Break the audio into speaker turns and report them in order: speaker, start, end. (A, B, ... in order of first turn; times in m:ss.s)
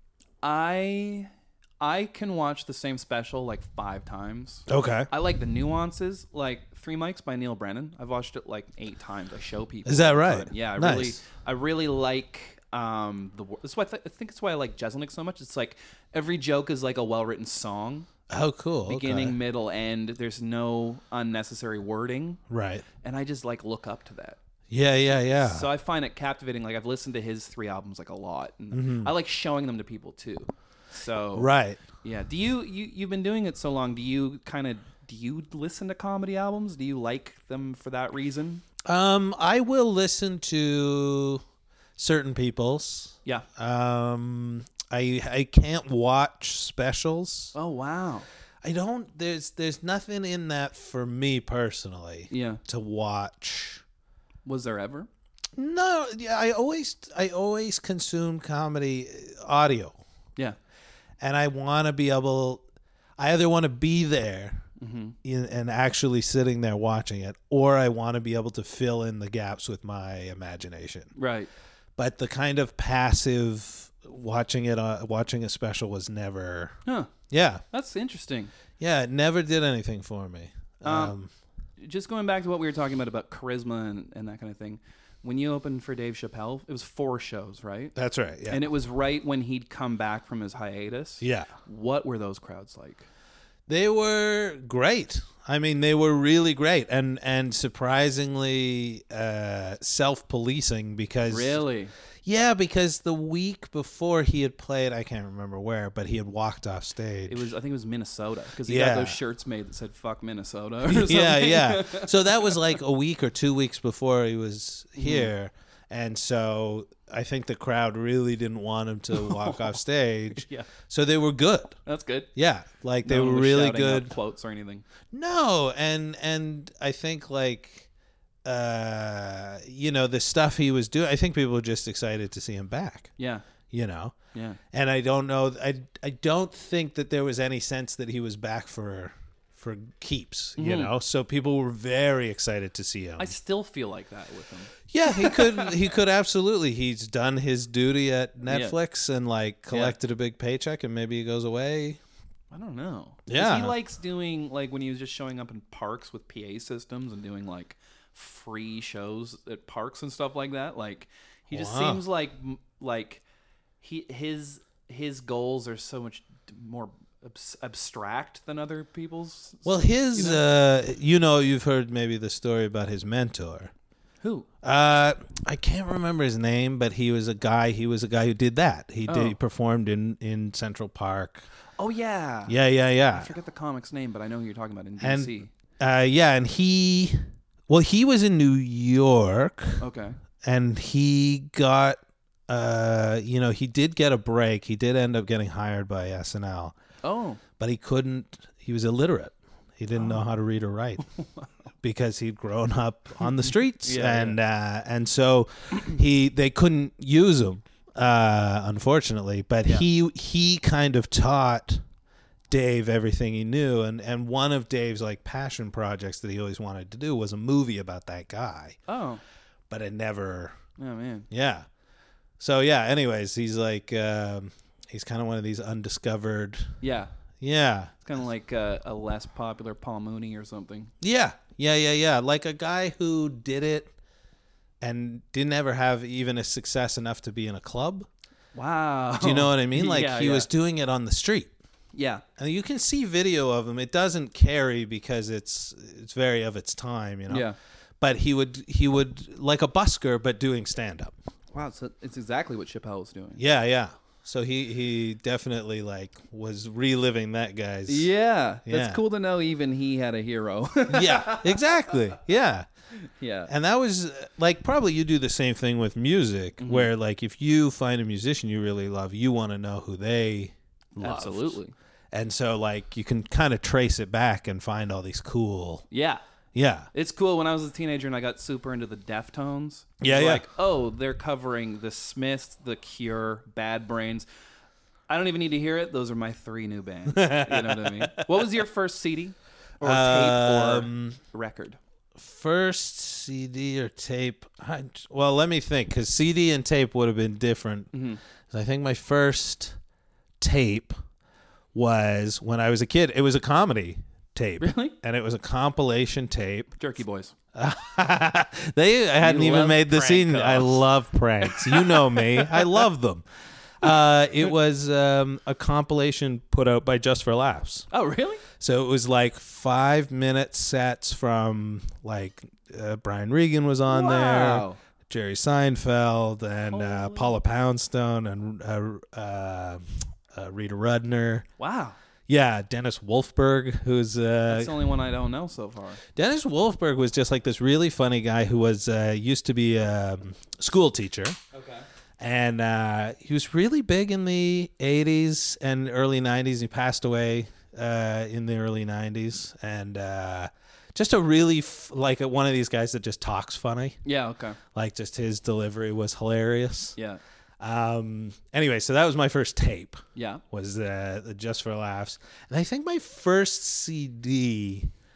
0:00.4-0:18.1 A
0:04.7-0:05.1 B
0:09.9-0:11.2 B
0:18.3-0:19.4 B
0:18.9-0:22.4 A
0:22.5-0:22.8 B
0:23.0-0:24.4 A
0:24.7-0:25.7 B
0:25.3-0:31.5 A
0:28.7-0:29.1 B
0:31.4-0:31.8 B
0:32.0-0:38.6 A
0:38.8-0:41.4 B
0:42.0-0:47.5 B
0:47.5-0:48.3 A
0:48.6-0:53.8 B
0:52.3-0:52.6 A
0:54.4-0:55.1 A
0:55.6-1:00.0 B
1:01.2-1:02.6 B
1:03.2-1:04.7 B
1:04.8-1:05.2 A
1:05.2-1:11.1 B
1:11.2-1:11.5 A
1:12.0-1:16.8 B
1:16.9-1:17.1 A
1:17.3-1:17.6 B
1:17.7-1:18.5 A
1:18.8-1:21.3 B
1:20.8-1:21.2 A
1:21.8-1:27.9 A
1:28.0-1:28.6 B
1:28.5-1:33.1 A
1:31.2-1:31.5 B
1:33.7-1:41.6 B
1:41.3-1:41.9 A
1:42.2-1:47.5 B
1:47.3-1:52.6 A
1:48.7-1:49.2 B
1:50.9-2:01.8 B
1:55.0-1:55.3 A
1:59.2-1:59.6 A
2:00.4-2:00.7 A
2:01.9-2:02.3 A
2:02.4-2:04.1 B
2:03.0-2:04.8 A
2:05.1-2:07.9 B
2:08.4-2:13.1 B
2:13.2-2:13.5 A
2:13.7-2:14.2 B
2:14.3-2:14.6 A
2:14.7-2:23.3 B
2:20.6-2:20.9 A
2:23.2-2:25.8 A
2:24.9-2:32.0 B
2:28.5-2:28.8 A
2:29.7-2:30.0 A
2:32.5-2:43.2 A
2:33.3-2:33.8 B
2:41.5-2:42.0 B
2:43.8-2:50.4 A
2:49.6-2:53.7 B
2:54.2-2:54.5 A
2:54.6-3:01.4 B
2:59.1-2:59.4 A
3:01.8-3:02.6 A
3:02.5-3:03.3 B
3:03.1-3:05.5 A
3:05.0-3:09.8 B
3:09.8-3:10.2 A
3:10.4-3:16.8 B
3:17.0-3:17.4 A
3:17.6-3:21.0 B
3:20.0-3:20.2 A
3:21.8-3:31.8 B
3:23.2-3:24.4 A
3:32.5-3:38.8 B
3:38.9-3:39.2 A
3:39.7-3:40.6 B
3:40.8-3:41.3 A
3:41.3-3:41.7 B
3:42.4-3:46.8 B
3:46.8-3:47.1 A
3:47.4-3:48.0 B
3:48.0-3:50.9 A
3:51.0-3:53.9 B
3:54.8-3:58.1 B
3:58.5-4:00.5 A
3:59.2-4:01.5 B
4:01.9-4:02.2 A
4:02.4-4:07.5 B
4:07.3-4:07.6 A
4:08.0-4:11.1 B
4:11.5-4:13.4 A
4:13.4-4:18.1 B
4:17.9-4:21.8 A
4:18.7-4:19.0 B
4:20.9-4:22.7 B
4:23.0-4:23.5 A
4:23.5-4:31.6 B
4:26.6-4:26.9 A
4:31.0-4:31.7 A
4:32.1-4:35.8 B
4:35.9-4:36.2 A
4:36.5-4:36.9 B
4:36.9-4:44.3 A
4:40.0-4:40.4 B
4:45.1-4:51.8 A
4:47.1-4:48.3 B
4:49.8-4:51.2 B
4:52.2-4:57.9 B
4:57.9-4:58.2 A
4:58.5-4:59.8 B
5:00.4-5:01.0 B
5:01.7-5:06.7 B
5:04.6-5:05.0 A
5:06.8-5:07.3 A
5:07.5-5:13.2 B
5:09.2-5:10.9 A
5:11.4-5:12.9 A
5:13.8-5:17.9 B
5:17.9-5:18.4 A
5:18.6-5:31.5 B
5:23.9-5:24.8 A
5:26.7-5:27.4 A
5:31.6-5:32.0 A
5:32.3-5:34.7 B
5:34.5-5:36.0 A
5:36.2-5:41.4 B
5:41.5-5:41.9 A
5:42.2-5:54.0 B
5:54.0-5:54.6 A
5:54.7-5:57.0 B
5:57.0-5:57.2 A
5:57.6-6:04.9 B
6:00.2-6:00.4 A